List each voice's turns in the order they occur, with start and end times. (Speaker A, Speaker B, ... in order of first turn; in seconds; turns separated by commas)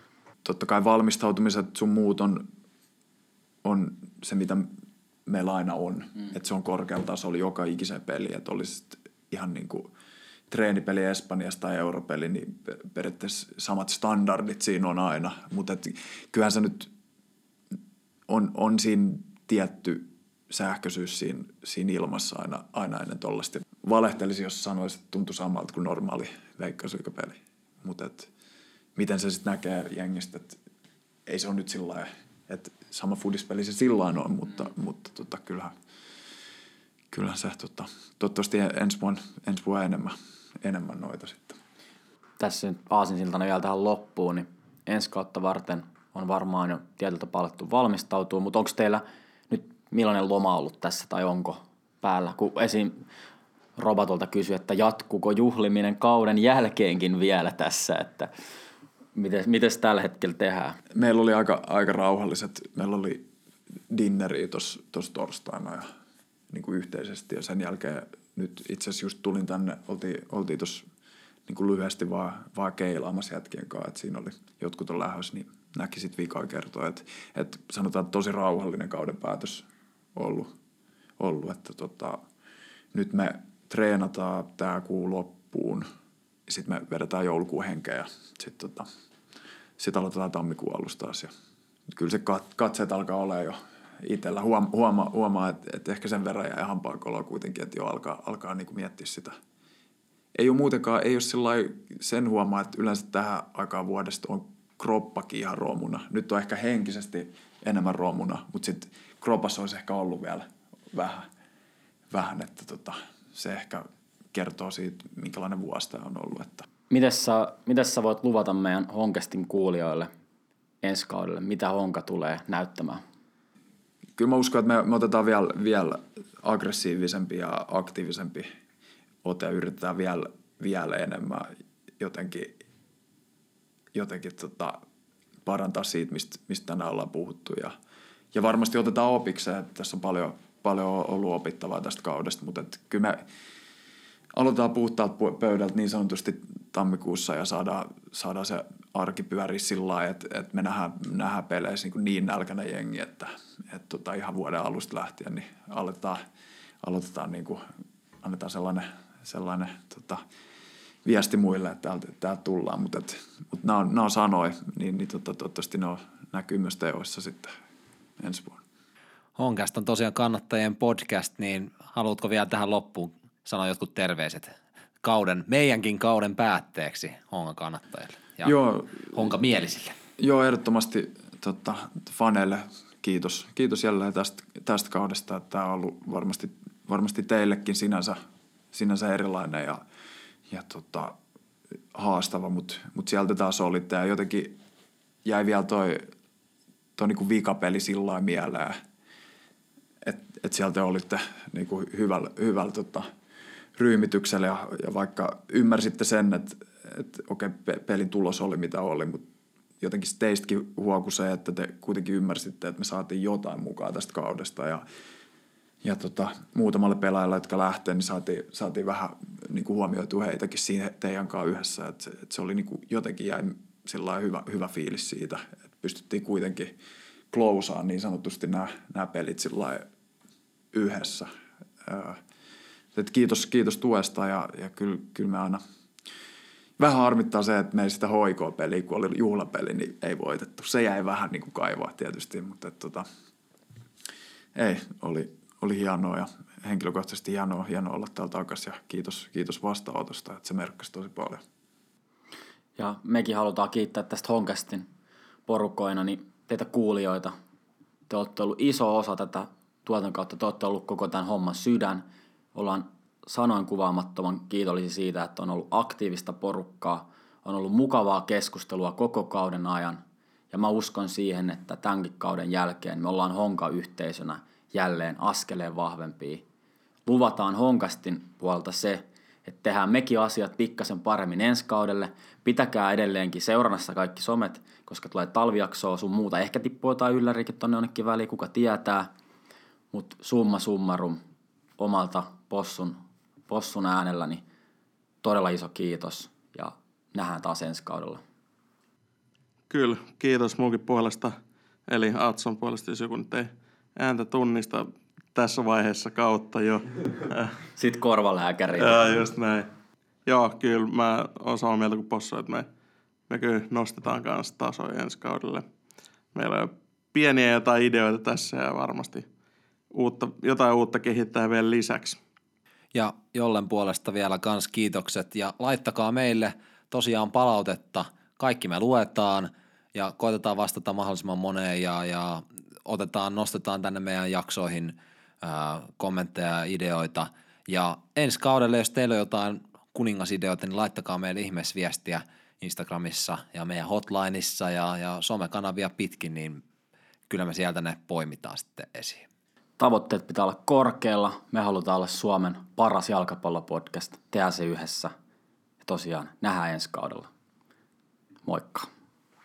Speaker A: 0.5-2.5, Speaker A: 3.6-4.7, Speaker A: 5.3-9.9, Speaker A: 10.5-16.9, Speaker A: 18.3-28.3, Speaker A: 28.9-30.6, Speaker A: 31.3-35.7, Speaker A: 37.1-41.6, Speaker B: 42.4-53.0, Speaker B: 53.8-58.3, Speaker B: 59.1-60.8, Speaker A: 61.0-63.2, Speaker A: 63.9-65.9, Speaker A: 66.5-70.8, Speaker A: 71.5-80.5, Speaker A: 81.2-82.2, Speaker A: 82.9-85.9, Speaker A: 86.5-88.9, Speaker A: 89.8-91.3, Speaker A: 91.9-99.4, Speaker A: 100.3-111.3, Speaker A: 112.1-116.7, Speaker B: 116.9-120.1, Speaker B: 120.8-123.0, Speaker A: 124.2-128.5, Speaker A: 129.2-132.6, Speaker A: 133.9-134.8, Speaker A: 135.4-137.7, Speaker A: 138.3-143.2, Speaker A: 144.3-156.2, Speaker A: 156.8-157.6, Speaker A: 158.2-160.2, Speaker A: 161.1-167.5, Speaker A: 168.2-168.6, Speaker C: 169.4-178.6, Speaker A: 178.4-179.1, Speaker C: 179.1-179.9, Speaker A: 180.2-188.2, Speaker A: 188.7-189.8, Speaker A: 190.5-191.2, Speaker A: 191.9-194.5, Speaker A: 195.2-196.1, Speaker A: 197.0-198.8, Speaker A: 200.0-203.1, Speaker A: 203.8-209.2, Speaker A: 209.8-214.8, Speaker A: 215.8-226.7, Speaker A: 227.3-229.9, Speaker A: 230.7-231.3, Speaker A: 231.8-232.2, Speaker A: 232.9-235.6, Speaker A: 236.8-243.1, Speaker A: 244.6-251.4, Speaker B: 252.8-254.9, Speaker B: 255.5-257.4, Speaker B: 258.1-276.4, Speaker B: 277.1-289.1, Speaker B: 289.9-291.2, Speaker B: 291.8-294.4, Speaker B: 295.2-298.2, Speaker D: 299.7-301.4, Speaker D: 301.9-307.5, Speaker B: 307.8-309.3, Speaker D: 308.8-309.7, Speaker D: 310.3-312.7, Speaker D: 313.3-315.6, Speaker D: 316.3-319.3, Speaker D: 319.9-322.2, Speaker C: 322.9-346.6, Speaker C: 347.3-349.2, Speaker B: 349.8-355.1, Speaker B: 355.8-357.3, Speaker B: 358.5-358.9